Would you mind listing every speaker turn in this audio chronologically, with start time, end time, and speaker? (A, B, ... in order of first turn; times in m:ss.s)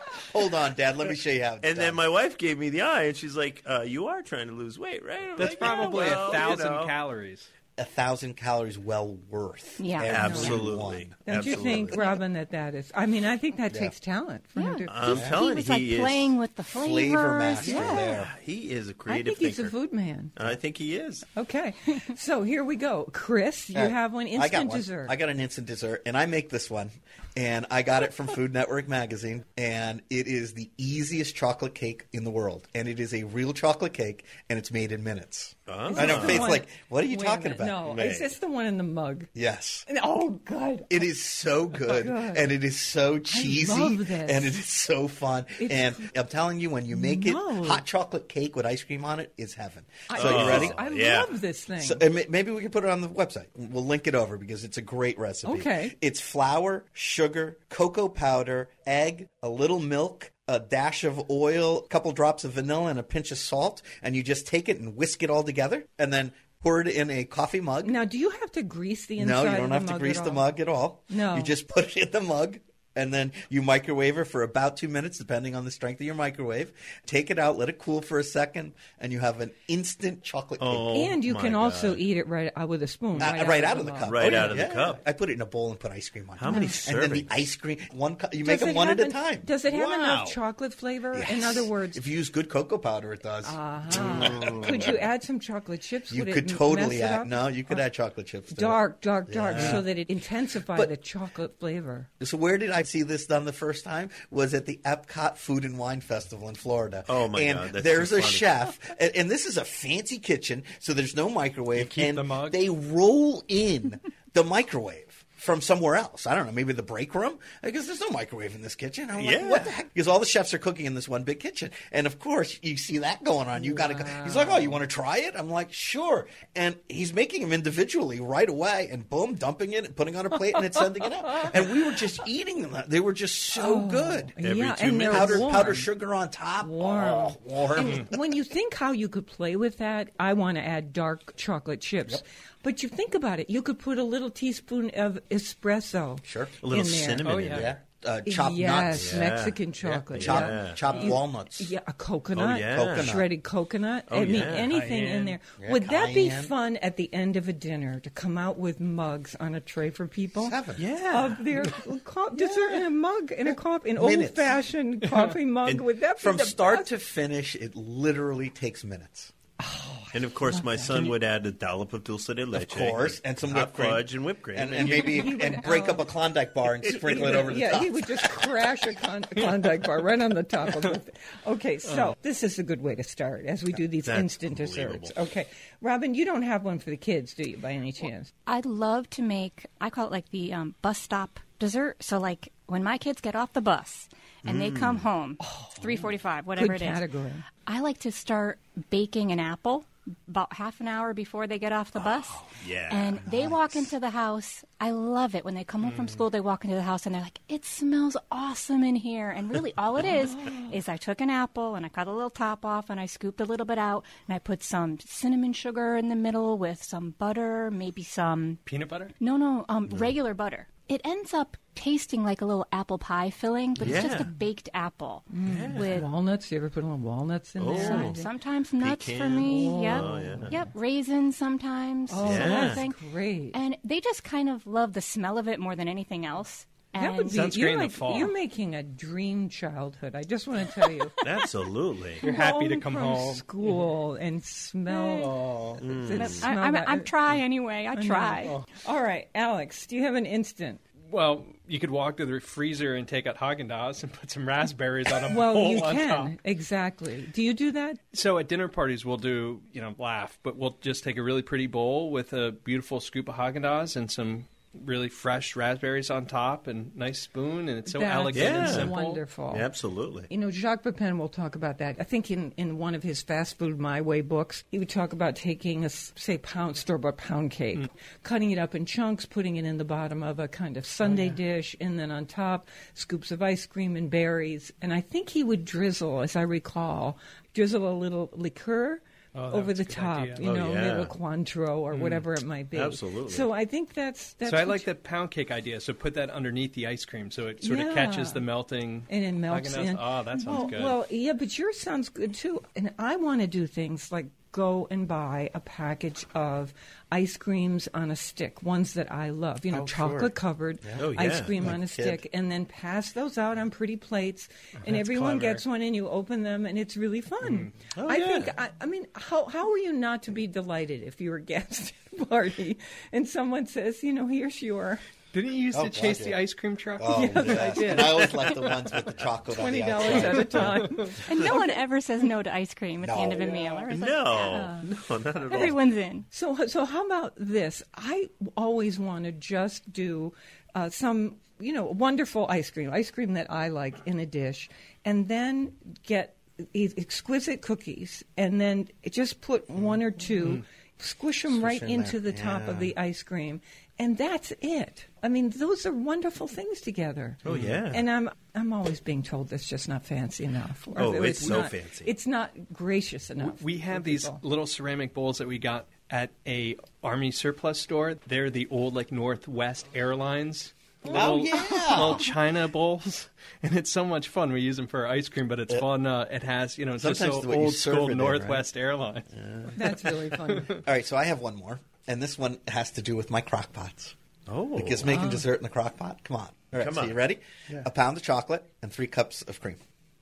0:00.2-0:02.0 A
0:01.6-0:06.9 B
0:05.4-0:07.5 C
0:05.4-0:06.2 A
0:07.8-0:11.9 A
0:09.8-0:10.6 D
0:10.0-0:12.1 B
0:10.2-0:10.6 E
0:11.2-0:15.0 E
0:14.6-0:18.0 D
0:14.9-0:16.4 B
0:15.1-0:15.4 A
0:16.7-0:18.3 A
0:17.6-0:18.1 E
0:18.1-0:19.8 B
0:19.1-0:20.3 E
0:20.4-0:21.2 B
0:21.4-0:25.1 E
0:23.7-0:37.8 A
0:35.7-0:36.6 B
0:35.9-0:39.3 E
0:37.8-0:38.4 B
0:39.4-0:39.9 A
0:39.9-0:41.1 E
0:40.9-0:50.8 A
0:41.8-0:42.5 E
0:43.3-0:44.5 E
0:45.6-0:46.1 E
0:46.9-0:47.8 E
0:50.1-0:52.0 E
0:50.1-0:51.4 B
0:51.8-1:08.0 A
0:55.4-0:55.9 E
1:07.8-1:10.4 E
1:09.2-1:21.1 A
1:11.1-1:11.5 E
1:20.6-1:22.0 B
1:20.9-1:24.6 E
1:23.2-1:30.3 A
1:24.0-1:25.0 B
1:26.4-1:27.3 B
1:26.5-1:26.8 E
1:28.4-1:32.0 E
1:31.1-1:35.0 A
1:33.4-1:37.8 E
1:34.0-1:35.0 B
1:36.1-1:39.9 A
1:38.5-1:42.1 E
1:39.5-1:39.8 B
1:40.7-1:40.9 A
1:42.2-2:14.4 A
1:47.1-1:48.5 B
1:51.8-1:52.6 C
1:59.2-1:59.7 B
2:03.6-2:04.7 E
2:13.5-2:15.9 E
2:14.4-2:15.7 B
2:15.0-2:18.2 A
2:16.6-2:27.3 E
2:26.2-2:26.6 A
2:26.6-2:27.8 B
2:27.2-2:27.7 C
2:27.5-2:29.3 A
2:28.2-2:46.9 E
2:28.9-2:31.0 B
2:30.1-2:31.7 A
2:32.4-2:33.2 B
2:32.7-2:33.3 A
2:34.1-2:34.7 B
2:34.5-2:35.4 C
2:35.6-2:36.5 A
2:40.4-2:40.8 A
2:40.8-2:41.4 B
2:44.0-2:44.6 A
2:46.2-2:49.3 A
2:49.6-2:51.1 E
2:50.1-2:55.4 B
2:52.5-2:58.4 A
2:54.8-2:56.1 E
2:56.9-3:08.3 E
3:04.0-3:05.1 B
3:08.4-3:17.0 D
3:14.4-3:15.1 B
3:15.4-3:17.4 E
3:17.6-3:38.6 D
3:22.0-3:23.9 B
3:30.3-3:30.7 E
3:38.6-3:39.1 C
3:39.2-3:46.1 D
3:43.8-3:44.3 B
3:45.3-3:48.3 E
3:45.4-3:46.1 B
3:47.6-3:48.2 B
3:47.7-3:53.0 D
3:48.8-3:50.6 B
3:49.4-3:50.6 E
3:52.1-3:53.6 E
3:52.2-3:52.8 B
3:53.5-3:57.5 D
3:56.9-4:01.2 E
3:57.3-3:58.3 C
4:01.2-4:02.2 B
4:02.2-4:07.1 E
4:02.2-4:03.9 C
4:04.9-4:05.4 D
4:05.3-4:05.7 C
4:05.8-4:06.5 B
4:06.1-4:08.6 D
4:07.9-4:10.8 E
4:11.1-4:16.4 C
4:15.3-4:18.0 E
4:18.1-4:29.2 C
4:27.9-4:29.7 E
4:28.3-4:30.3 B
4:30.3-4:54.9 E
4:41.0-4:41.4 C
4:49.3-4:50.4 C
4:50.4-4:51.1 B
4:51.9-4:52.2 C
4:52.7-4:53.5 B
4:54.4-5:01.0 C
4:57.6-4:58.4 E
4:59.1-5:25.0 E
5:09.7-5:10.3 A
5:11.0-5:11.6 B
5:11.6-5:12.2 A
5:14.8-5:15.6 C
5:17.4-5:17.7 C
5:18.0-5:18.5 B
5:25.3-5:28.5 C
5:25.7-5:26.4 A
5:27.0-5:31.0 A
5:27.1-5:28.3 E
5:29.5-5:31.8 E
5:31.2-5:34.9 D
5:33.0-5:33.9 A
5:33.9-5:35.8 B
5:35.4-5:36.3 D
5:36.3-6:04.4 E
5:51.5-5:52.9 A
5:57.4-5:58.1 B
6:01.0-6:02.1 B
6:03.4-6:19.3 C
6:11.1-6:12.2 A
6:17.0-6:18.6 A
6:19.4-6:19.8 A
6:19.8-6:20.7 E
6:20.5-6:20.8 C
6:20.7-6:24.2 A
6:24.5-6:25.2 B
6:24.7-6:29.8 A
6:25.1-6:25.4 E
6:26.8-6:27.2 B